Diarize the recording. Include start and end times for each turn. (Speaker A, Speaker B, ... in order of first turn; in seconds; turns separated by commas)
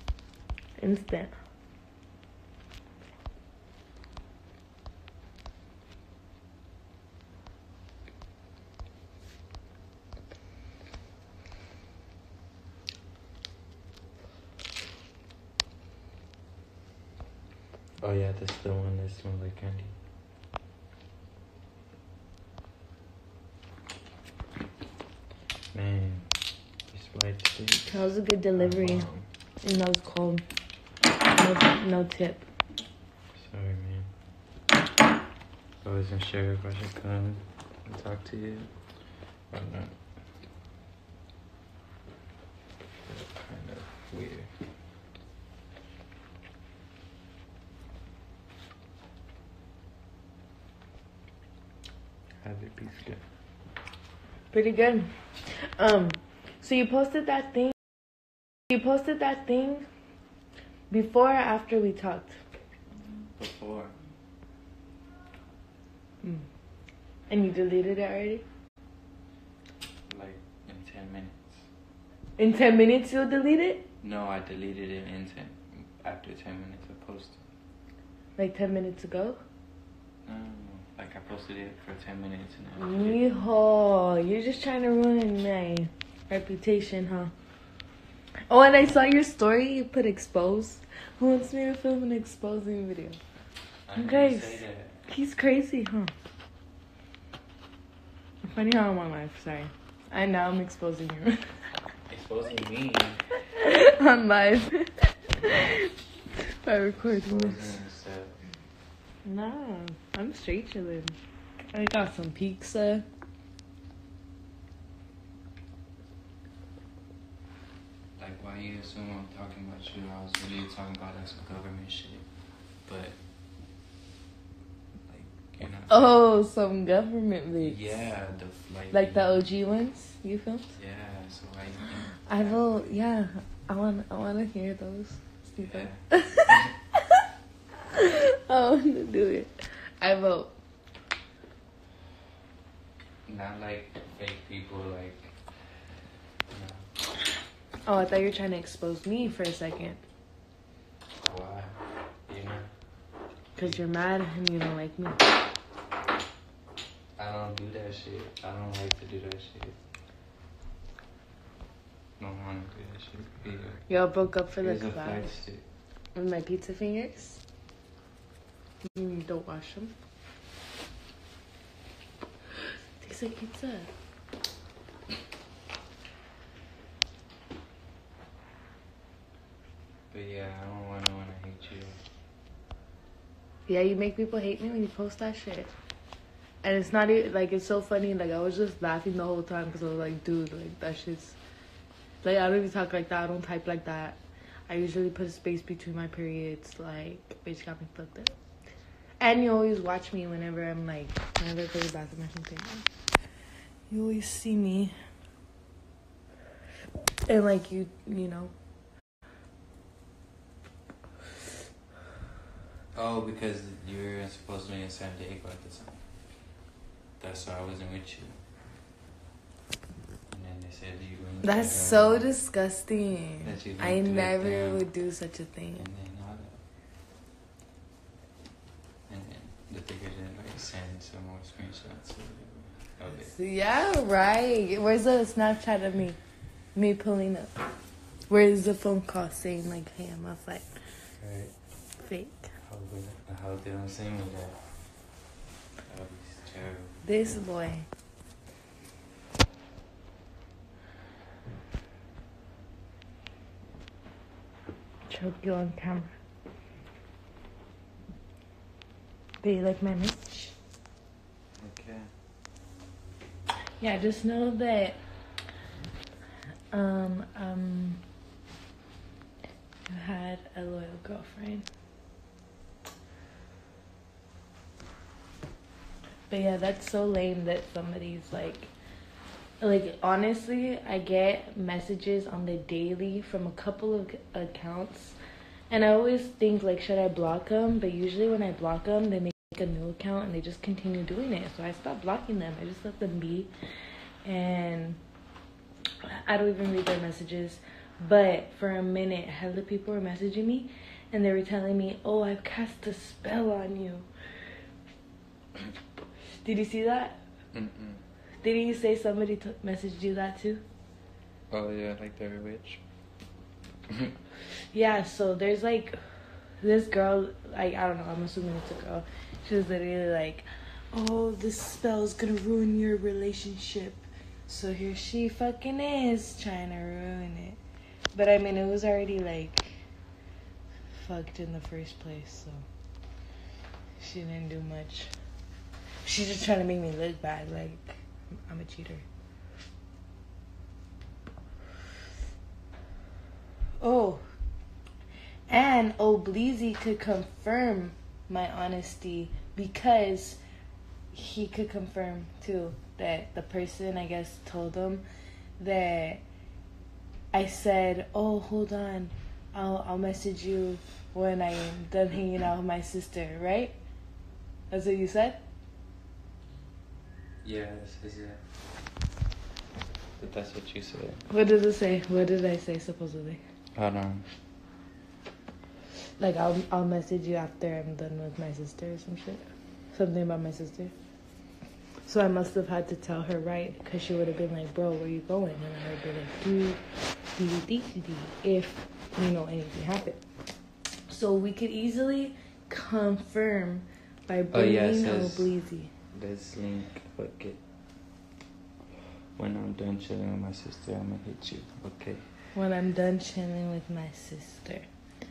Speaker A: 0.8-1.3, Speaker B: 18.0-19.9, Speaker B: 25.7-26.3, Speaker B: 26.9-29.3, Speaker A: 27.9-29.1, Speaker A: 29.6-30.4, Speaker A: 31.3-32.5, Speaker B: 33.3-34.1, Speaker B: 35.8-38.7, Speaker B: 39.5-40.0, Speaker B: 43.0-44.5, Speaker B: 52.4-53.2, Speaker A: 54.5-58.0, Speaker A: 58.7-59.9, Speaker A: 60.9-62.4, Speaker B: 63.2-63.9, Speaker A: 67.3-68.4, Speaker B: 70.1-71.7, Speaker A: 72.4-73.8, Speaker B: 74.0-77.4, Speaker A: 78.4-79.4, Speaker B: 80.2-83.2, Speaker A: 82.8-87.3, Speaker A: 88.5-93.2, Speaker B: 93.9-95.0, Speaker A: 94.0-96.1, Speaker A: 98.5-101.4, Speaker B: 102.1-103.2, Speaker A: 103.5-105.9, Speaker A: 106.4-107.7, Speaker B: 106.9-108.4, Speaker A: 109.2-111.2, Speaker A: 111.7-113.0, Speaker B: 118.2-122.3, Speaker B: 122.8-123.2, Speaker B: 125.1-126.1, Speaker A: 125.9-127.8, Speaker B: 127.6-129.4, Speaker A: 128.9-130.7, Speaker B: 130.8-132.9, Speaker A: 132.2-137.2, Speaker B: 135.6-136.7, Speaker A: 137.9-140.5, Speaker B: 143.3-145.3, Speaker B: 146.5-146.9, Speaker A: 147.8-150.0, Speaker B: 151.2-152.7, Speaker A: 153.6-155.2, Speaker B: 157.2-159.8, Speaker B: 162.2-163.9, Speaker A: 163.9-165.2, Speaker B: 164.6-165.6, Speaker A: 166.1-167.4, Speaker A: 168.9-169.9, Speaker A: 173.0-173.9, Speaker B: 180.1-182.0, Speaker A: 183.7-185.7, Speaker A: 186.6-191.4, Speaker A: 192.2-198.4, Speaker A: 199.2-202.9, Speaker A: 203.9-204.9, Speaker A: 207.3-208.5, Speaker B: 212.9-216.0, Speaker B: 217.2-218.4, Speaker B: 220.3-222.3, Speaker A: 221.4-225.9, Speaker B: 223.4-224.8, Speaker B: 225.8-226.6, Speaker B: 229.1-233.3, Speaker A: 233.1-236.2, Speaker A: 236.7-237.5, Speaker A: 238.3-240.7, Speaker B: 241.2-241.5, Speaker A: 242.0-242.5, Speaker B: 242.7-244.6, Speaker B: 245.8-247.4, Speaker A: 247.0-247.8, Speaker A: 255.1-256.1, Speaker A: 259.4-260.5, Speaker B: 261.6-262.1, Speaker A: 263.8-265.0, Speaker A: 266.7-268.0, Speaker A: 269.9-271.7, Speaker A: 276.3-278.7, Speaker A: 279.6-285.1, Speaker A: 285.7-293.5, Speaker A: 294.2-295.0, Speaker A: 296.0-304.1, Speaker A: 306.4-307.2, Speaker B: 307.5-308.0, Speaker A: 308.4-310.6, Speaker B: 311.5-312.8, Speaker B: 313.9-314.1, Speaker A: 314.7-316.0, Speaker A: 316.6-327.6, Speaker A: 328.1-329.8, Speaker A: 330.9-332.6, Speaker A: 334.0-335.1, Speaker A: 336.0-339.0, Speaker A: 343.8-344.2, Speaker A: 345.5-350.4, Speaker A: 351.1-355.0, Speaker A: 355.6-356.2, Speaker A: 357.3-363.7, Speaker A: 364.7-365.4, Speaker B: 367.4-368.4, Speaker B: 370.2-371.2, Speaker A: 371.3-373.4, Speaker B: 373.7-374.2, Speaker A: 376.2-380.9, Speaker A: 382.1-386.8, Speaker A: 387.4-390.2, Speaker A: 391.1-395.9, Speaker B: 394.5-395.5, Speaker B: 396.1-397.6, Speaker B: 399.4-402.2, Speaker A: 402.5-404.9